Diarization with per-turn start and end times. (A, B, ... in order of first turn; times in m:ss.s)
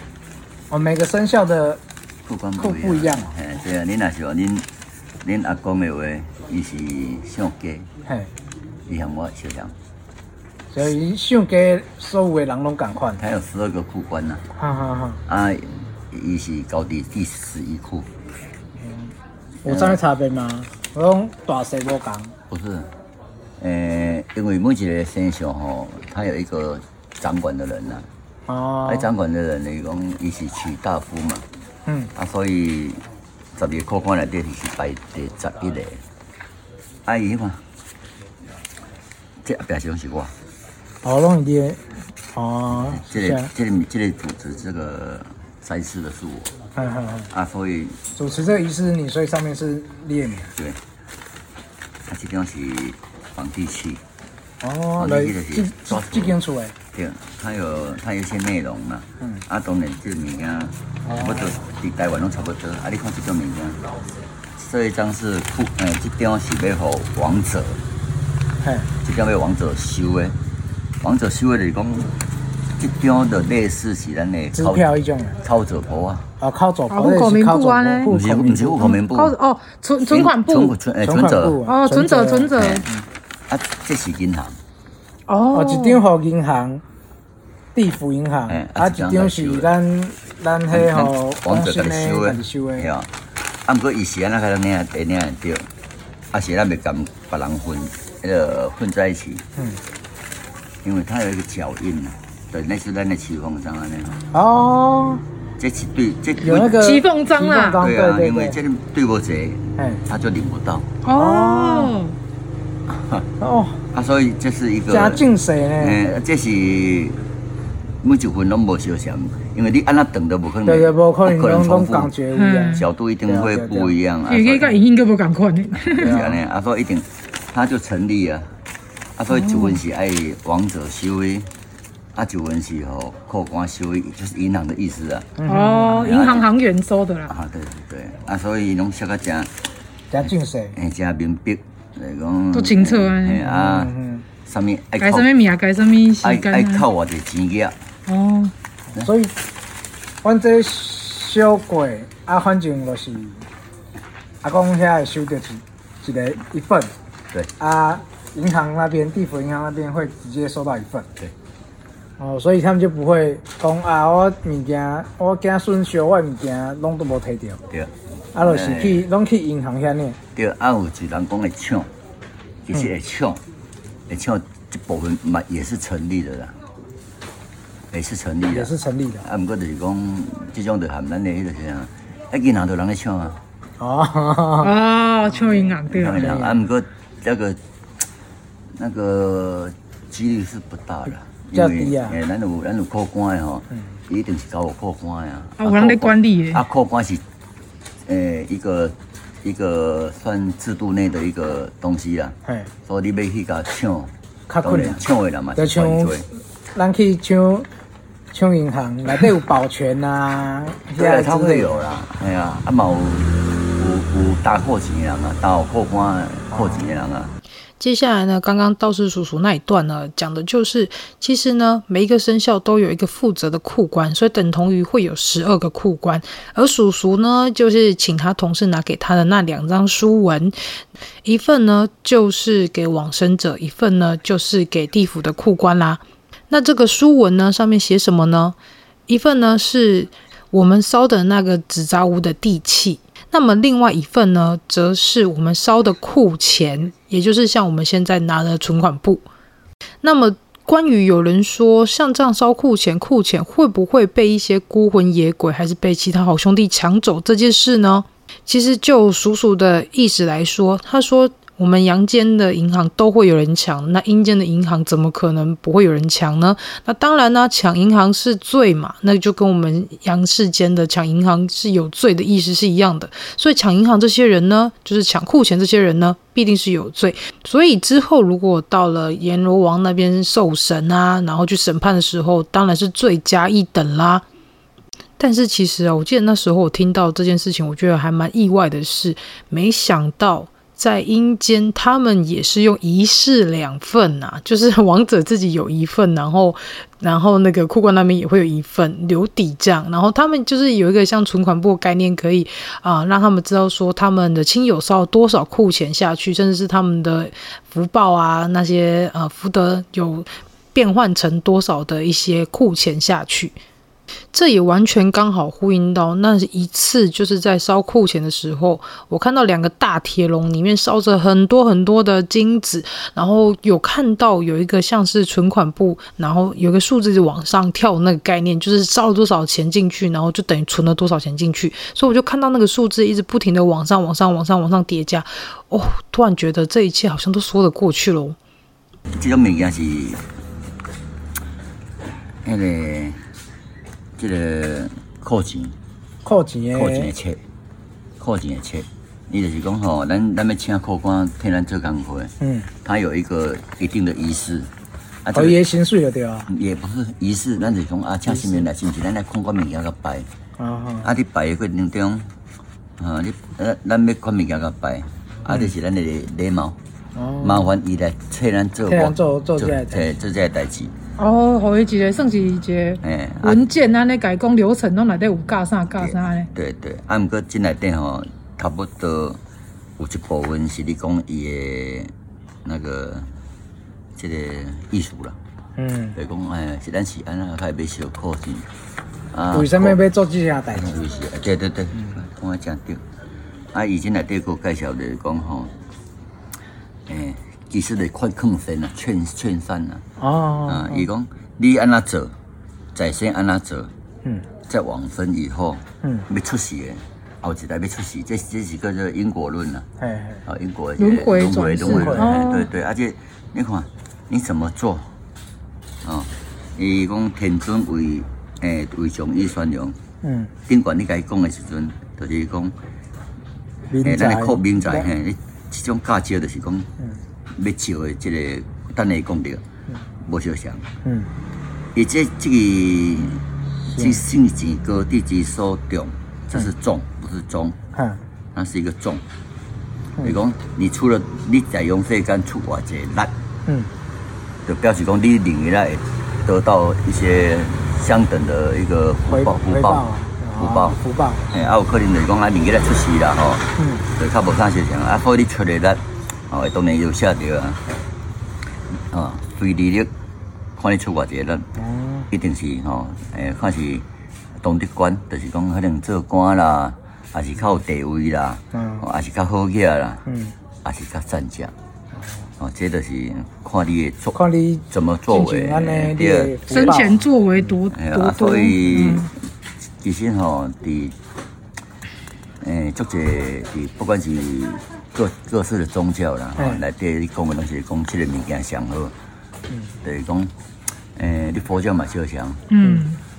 0:00.7-0:01.8 A
0:02.3-0:04.7 B
0:02.6-0:03.3 A
0:05.2-0:07.9 B
0:08.9-0:09.7 B
0:10.7-0:13.2 A
0:13.2-0:14.4 B
0:14.6-0:15.2 A
0:15.3-0:18.1 B
0:18.8-0:19.1 A
0:19.6-0:22.3 A
0:19.7-0:20.0 B
0:22.5-0:22.9 B
0:23.6-0:28.1 B
0:28.5-0:29.1 A
0:28.9-0:31.4 B
0:31.9-0:32.1 A
0:32.2-0:33.0 B
0:33.6-0:36.0 B
0:37.0-0:37.6 B
0:39.4-0:40.3 B
0:41.0-0:43.5 A
0:42.9-0:46.5 B
0:46.8-0:47.3 A
0:47.3-0:48.0 B
0:48.2-0:50.5 A
0:52.1-0:54.0 B
0:54.6-0:56.8 A
0:55.0-0:56.4 B
0:56.9-1:03.8 B
1:01.0-1:01.5 A
1:04.6-1:07.8 B
1:08.6-1:08.9 A
1:09.0-1:10.4 B
1:11.0-1:12.1 B
1:12.8-1:14.9 B
1:14.5-1:15.4 A
1:15.4-1:16.3 B
1:16.4-1:18.9 A
1:16.9-1:18.1 C
1:18.1-1:19.4 B
1:18.8-1:20.8 C
1:20.1-1:21.6 B
1:21.0-1:23.0 A
1:21.7-1:22.9 C
1:22.6-1:22.8 B
1:23.5-1:24.6 B
1:25.3-1:26.0 C
1:25.5-1:26.8 A
1:27.8-1:32.9 A
1:28.5-1:29.7 B
1:30.7-1:33.1 B
1:33.7-1:35.7 B
1:36.3-1:39.5 B
1:40.8-1:44.2 B
1:44.3-1:45.2 A
1:45.6-1:46.8 B
1:46.4-1:48.6 A
1:46.8-1:47.8 C
1:47.8-1:50.9 B
1:51.0-1:52.2 C
1:51.1-1:51.9 A
1:52.9-1:53.3 B
1:53.4-1:53.8 A
1:53.9-1:55.2 B
1:54.9-1:56.0 A
1:55.8-1:57.2 B
1:58.0-2:02.1 B
2:00.6-2:04.0 A
2:02.3-2:02.8 C
2:02.8-2:04.8 B
2:04.3-2:06.1 C
2:05.8-2:08.5 B
2:05.9-2:06.4 A
2:09.2-2:11.5 B
2:09.3-2:09.8 C
2:12.2-2:15.4 B
2:15.4-2:16.1 A
2:15.5-2:17.3 C
2:16.0-2:16.5 B
2:17.3-2:19.5 B
2:20.1-2:20.8 A
2:20.8-2:23.9 B
2:22.5-2:23.5 C
2:23.5-2:24.3 A
2:24.5-2:25.3 B
2:25.0-2:26.9 C
2:26.2-2:27.8 B
2:28.1-2:28.5 C
2:29.0-2:29.3 A
2:30.2-2:33.4 A
2:34.4-2:36.9 A
2:37.6-2:41.1 A
2:42.2-2:47.6 A
2:47.7-2:49.0 B
2:48.3-2:50.2 A
2:50.4-2:51.9 B
2:52.7-2:53.4 B
2:54.1-2:56.6 B
2:57.9-2:58.7 B
2:58.5-2:59.3 A
2:59.2-3:03.4 B
3:03.8-3:04.7 A
3:04.6-3:06.4 C
3:05.9-3:07.6 B
3:06.2-3:06.6 A
3:08.8-3:17.2 B
3:11.5-3:12.2 A
3:15.6-3:16.6 C
3:18.1-3:24.1 B
3:24.5-3:25.0 A
3:24.6-3:26.2 B
3:25.6-3:27.7 A
3:28.3-3:31.7 A
3:31.0-3:37.3 B
3:36.5-3:36.9 A
3:37.8-3:50.6 C
3:51.2-3:58.6 C
3:59.1-4:09.2 C
4:10.0-4:44.2 C
4:45.2-5:13.6 C
5:14.3-5:38.4 C
5:39.1-5:40.2 B
5:42.4-5:43.2 B
5:44.2-5:45.8 B
5:46.2-5:47.1 A
5:46.7-5:47.4 B
5:48.2-5:52.3 B
5:52.4-5:52.7 A
5:52.8-5:54.7 B
5:55.2-5:55.6 B
5:55.3-5:56.5 A
5:56.5-6:00.3 B
6:00.6-6:01.1 A
6:01.0-6:02.3 B
6:03.0-6:06.8 B
6:07.2-6:07.7 A
6:07.4-6:10.9 B
6:08.9-6:10.1 A
6:11.2-6:16.5 C
6:13.0-6:13.6 B
6:15.9-6:19.4 B
6:20.0-6:22.1 B
6:22.6-6:23.3 B
6:24.2-6:25.4 B
6:25.8-6:26.2 A
6:26.2-6:28.7 B
6:29.3-6:30.0 B
6:29.5-6:31.0 A
6:30.7-6:33.0 B
6:33.7-6:35.7 B
6:37.1-6:40.0 B
6:40.2-6:41.1 A
6:40.7-6:42.3 B
6:43.0-6:43.9 B
6:44.7-6:49.9 B
6:50.0-6:50.4 A
6:50.5-6:55.1 B
6:51.0-6:52.7 C
6:51.8-6:52.4 A
6:56.0-7:00.0 B
7:00.2-7:00.5 A
7:00.7-7:02.7 B
7:03.9-7:05.1 A
7:04.0-7:06.9 B
7:07.6-7:09.6 B
7:10.2-7:10.9 B
7:11.0-7:11.3 A
7:12.0-7:13.4 B
7:13.9-7:14.2 A
7:13.9-7:17.8 B
7:18.5-7:19.2 B
7:20.2-7:23.3 B
7:24.6-7:30.0 B
7:29.3-7:31.4 A
7:30.6-7:31.0 B
7:31.5-7:37.8 B
7:33.8-7:34.0 A
7:39.1-7:40.1 B
7:40.8-7:41.7 B
7:41.8-7:42.3 A
7:42.3-7:44.0 B
7:44.6-7:50.2 B
7:48.7-7:49.0 A
7:50.3-7:50.5 A
7:50.8-7:51.7 B
7:52.6-7:57.1 B
7:54.3-7:57.2 A
7:56.7-7:59.2 C
7:57.9-7:59.3 B
8:00.0-8:01.2 B
8:02.6-8:09.1 B
8:10.0-8:10.5 B
8:11.2-8:12.7 B
8:12.7-8:13.2 C